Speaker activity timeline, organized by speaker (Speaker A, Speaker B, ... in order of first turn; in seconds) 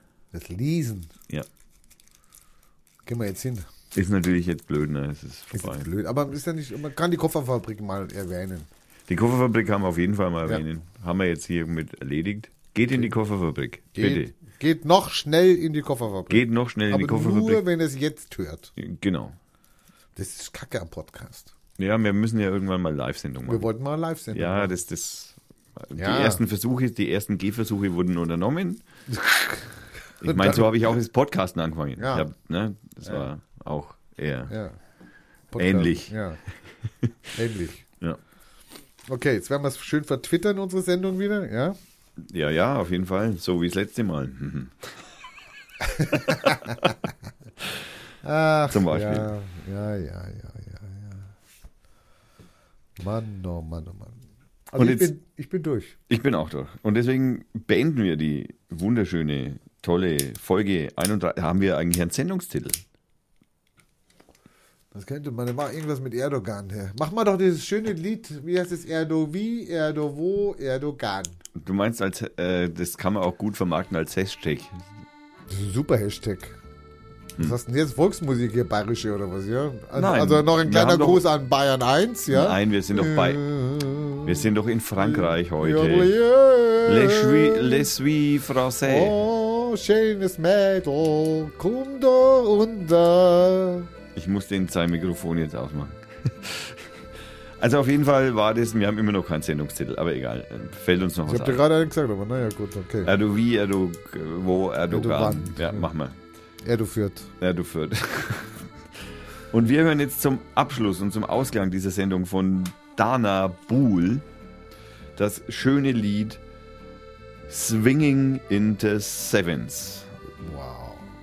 Speaker A: 0.3-1.1, 3.0-3.7, 5.5-8.7, 13.9-18.7, 20.1-21.5, 23.4-24.7, 26.0-26.4, 29.1-29.7, 30.2-30.7, 32.0-32.3, 34.5-34.8, 35.5-36.4, 37.3-37.9, 39.1-41.8, 45.8-47.1, 48.2-51.3, 53.0-56.0, 64.9-71.4, 75.5-76.6, 77.4-87.9, 88.8-93.9, 101.2-103.1, 104.9-105.9, 106.6-107.3, 120.4-121.1
Speaker B: 3.9-5.9, 9.1-14.3, 16.3-17.6, 18.8-19.4, 21.8-23.7, 24.3-28.8, 30.2-34.5, 35.6-36.1, 42.2-44.9, 48.7-49.3, 54.8-55.1, 56.1-62.8, 71.5-74.9, 79.9-81.2, 82.3-83.4, 84.2-86.1, 86.8-89.2, 94.1-97.0, 97.6-101.6, 103.0-106.2, 107.4-108.7, 109.5-114.2, 115.2-116.4, 117.5-120.1